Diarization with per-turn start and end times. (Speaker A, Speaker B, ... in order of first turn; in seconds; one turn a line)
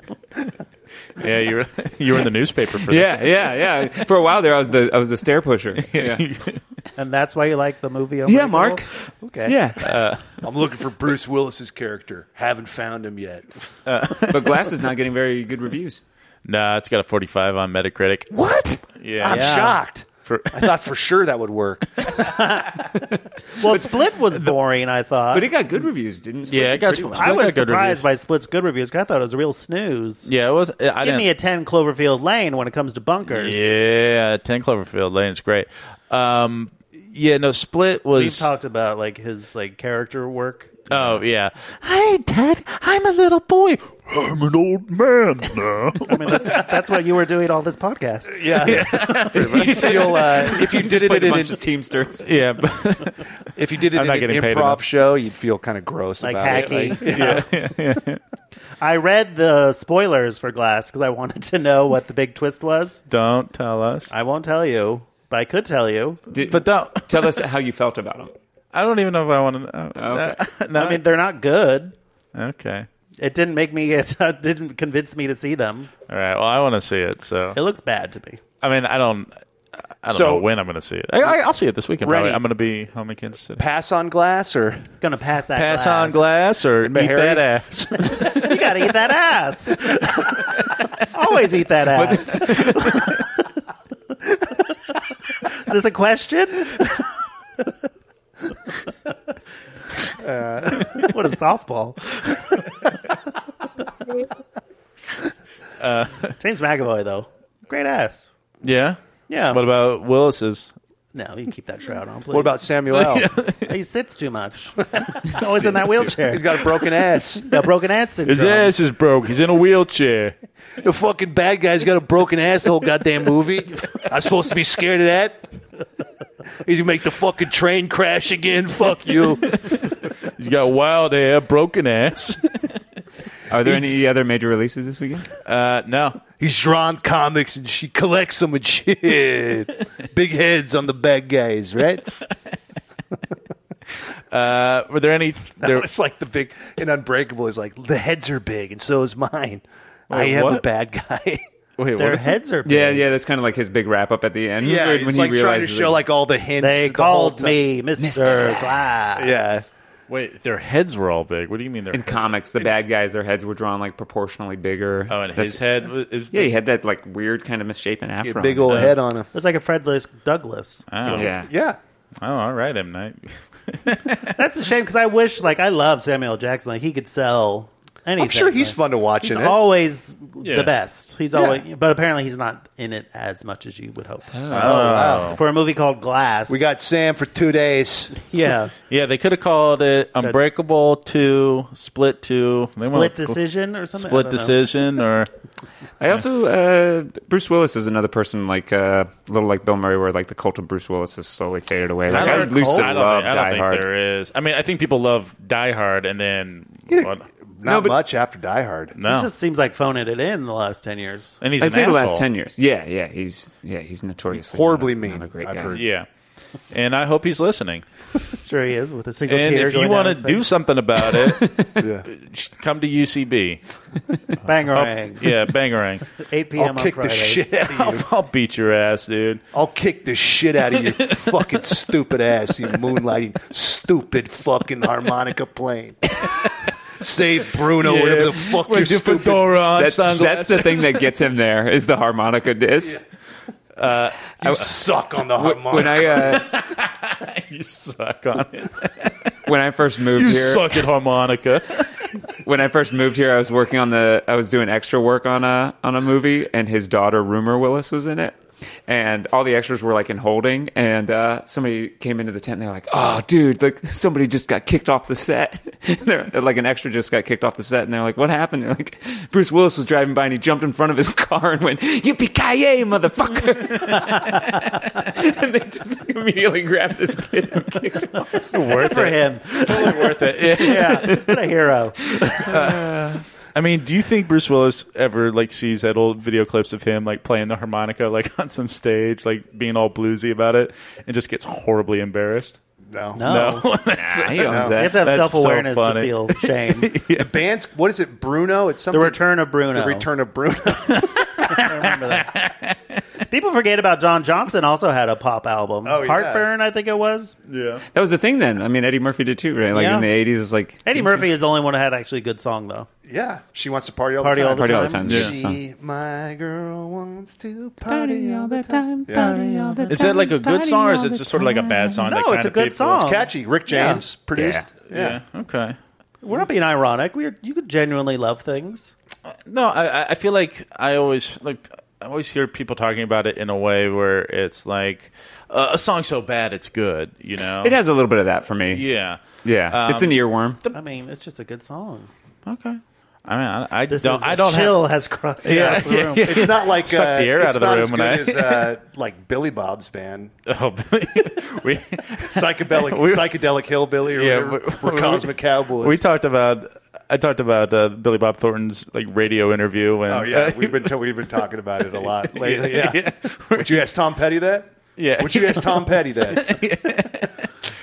Speaker A: 1.2-3.2
Speaker B: 2.9-6.3
Speaker A: 5.8-6.6
Speaker C: 7.0-9.6
Speaker B: 8.3-8.9
Speaker B: 9.4-9.9
Speaker A: 9.8-10.2
Speaker D: 10.4-13.5
Speaker A: 13.9-14.6
Speaker B: 14.3-16.0
Speaker A: 16.4-18.3
Speaker D: 18.3-22.7
Speaker A: 18.9-19.7
Speaker C: 19.2-19.8
Speaker A: 20.3-20.7
Speaker C: 22.2-22.8
Speaker C: 23.6-25.5
Speaker B: 25.3-27.5
Speaker A: 26.5-28.0
Speaker C: 27.2-30.3
Speaker A: 30.3-31.3
Speaker C: 31.0-33.7
Speaker A: 33.3-38.5
Speaker C: 38.1-41.1
Speaker A: 40.9-46.8
Speaker C: 46.0-49.1
Speaker D: 48.3-51.6
Speaker A: 48.6-50.6
Speaker B: 49.6-52.3
Speaker A: 52.2-53.3
Speaker D: 53.6-57.5
Speaker A: 53.9-54.8
Speaker C: 56.2-57.5
Speaker A: 56.5-58.2
Speaker C: 58.8-63.0
Speaker A: 63.1-64.1
Speaker C: 64.1-66.2
Speaker B: 66.3-68.3
Speaker A: 66.5-67.4
Speaker A: 68.7-71.0
Speaker B: 70.0-70.4
Speaker C: 70.7-72.0
Speaker A: 72.3-72.9
Speaker C: 73.2-75.9
Speaker A: 76.1-77.6
Speaker C: 77.5-78.4
Speaker A: 78.6-79.3
Speaker A: 80.0-83.6
Speaker D: 80.1-80.5
Speaker D: 82.0-82.4
Speaker D: 83.6-84.9
Speaker C: 85.0-86.2
Speaker A: 85.6-88.7
Speaker D: 86.8-87.5
Speaker C: 88.1-90.2
Speaker C: 91.1-93.3
Speaker B: 91.9-93.2
Speaker C: 95.5-97.0
Speaker D: 100.2-101.1
Speaker C: 100.8-102.6
Speaker A: 105.8-106.3
Speaker C: 106.4-108.3
Speaker A: 108.6-109.0
Speaker C: 109.3-109.6
Speaker A: 109.5-110.7
Speaker C: 111.1-112.6
Speaker D: 112.3-113.3
Speaker A: 112.9-113.7
Speaker C: 113.7-116.7
Speaker D: 116.0-117.5
Speaker C: 117.4-118.7
Speaker A: 118.3-120.3
Speaker D: 120.8-125.5
Speaker D: 126.6-129.6
Speaker A: 129.4-132.8
Speaker B: 133.5-135.3
Speaker A: 135.4-136.2
Speaker D: 136.4-142.1
Speaker A: 144.3-145.9
Speaker D: 145.6-151.4
Speaker A: 150.1-150.6
Speaker A: 151.8-152.4
Speaker C: 152.0-153.1
Speaker B: 152.6-156.0
Speaker D: 154.6-157.6
Speaker C: 156.6-159.6
Speaker B: 158.0-158.8
Speaker D: 159.2-159.7
Speaker A: 160.1-162.3
Speaker B: 161.9-165.6
Speaker A: 165.1-166.5
Speaker B: 166.3-168.9
Speaker D: 168.2-169.3
Speaker C: 169.3-170.8
Speaker A: 170.9-171.3
Speaker B: 171.1-171.5
Speaker D: 171.1-171.8
Speaker A: 172.2-174.4
Speaker C: 174.4-186.6
Speaker D: 178.2-179.6
Speaker A: 180.4-180.7
Speaker D: 181.3-181.6
Speaker B: 184.3-184.8
Speaker A: 184.5-185.4
Speaker D: 184.5-185.4
Speaker D: 186.5-188.1
Speaker C: 188.1-188.7
Speaker A: 188.9-193.4
Speaker C: 192.8-194.6
Speaker A: 194.0-195.3
Speaker B: 196.0-203.9
Speaker C: 202.1-203.0
Speaker A: 202.1-207.3
Speaker D: 206.9-208.9
Speaker B: 207.6-208.0
Speaker A: 208.9-209.3
Speaker C: 209.0-211.4
Speaker A: 211.4-212.2
Speaker B: 211.6-215.8
Speaker D: 214.4-215.8
Speaker A: 215.7-216.1
Speaker A: 216.7-217.8
Speaker C: 218.4-220.4
Speaker A: 219.3-221.5
Speaker B: 221.0-221.8
Speaker D: 221.8-222.1
Speaker A: 222.1-223.6
Speaker C: 224.4-225.3
Speaker A: 224.7-226.1
Speaker C: 226.2-227.4
Speaker D: 226.6-228.1
Speaker A: 227.6-229.4
Speaker D: 229.5-236.4
Speaker A: 231.1-231.7
Speaker A: 236.2-236.5
Speaker D: 237.0-239.6
Speaker A: 237.7-241.1
Speaker B: 239.7-243.0
Speaker A: 243.8-244.5
Speaker D: 244.4-246.4
Speaker B: 245.4-246.6
Speaker A: 245.8-249.3
Speaker B: 249.4-250.9
Speaker A: 250.1-252.1
Speaker B: 252.4-281.3
Speaker A: 278.5-281.4
Speaker C: 278.6-282.5
Speaker A: 282.1-292.6
Speaker B: 282.3-283.2
Speaker D: 292.9-293.3
Speaker C: 293.1-293.7
Speaker A: 293.2-297.3
Speaker B: 293.9-295.0
Speaker D: 294.4-294.8
Speaker C: 294.8-296.9
Speaker D: 297.1-299.2
Speaker C: 298.9-300.1
Speaker D: 299.7-301.2
Speaker A: 300.9-303.0
Speaker C: 301.5-302.4
Speaker C: 303.3-307.4
Speaker D: 305.9-306.4
Speaker A: 307.5-307.8
Speaker B: 307.9-310.9
Speaker C: 309.7-310.1
Speaker C: 310.9-312.9
Speaker D: 313.1-319.8
Speaker C: 314.2-315.0
Speaker B: 314.6-315.6
Speaker A: 315.1-315.4
Speaker C: 317.9-324.0
Speaker A: 319.9-323.0
Speaker D: 323.0-325.2
Speaker B: 324.4-324.7
Speaker A: 324.9-325.8
Speaker C: 326.2-328.9
Speaker A: 329.4-337.8
Speaker B: 337.6-338.9
Speaker A: 338.7-340.8
Speaker B: 339.4-340.6
Speaker C: 340.7-342.1
Speaker A: 342.4-344.9
Speaker C: 343.9-346.4
Speaker A: 345.4-348.7
Speaker D: 346.2-350.3
Speaker A: 350.5-353.3
Speaker D: 352.2-356.0
Speaker A: 354.1-355.3
Speaker A: 355.8-360.9
Speaker D: 360.1-366.5
Speaker A: 362.0-363.7
Speaker A: 364.9-367.5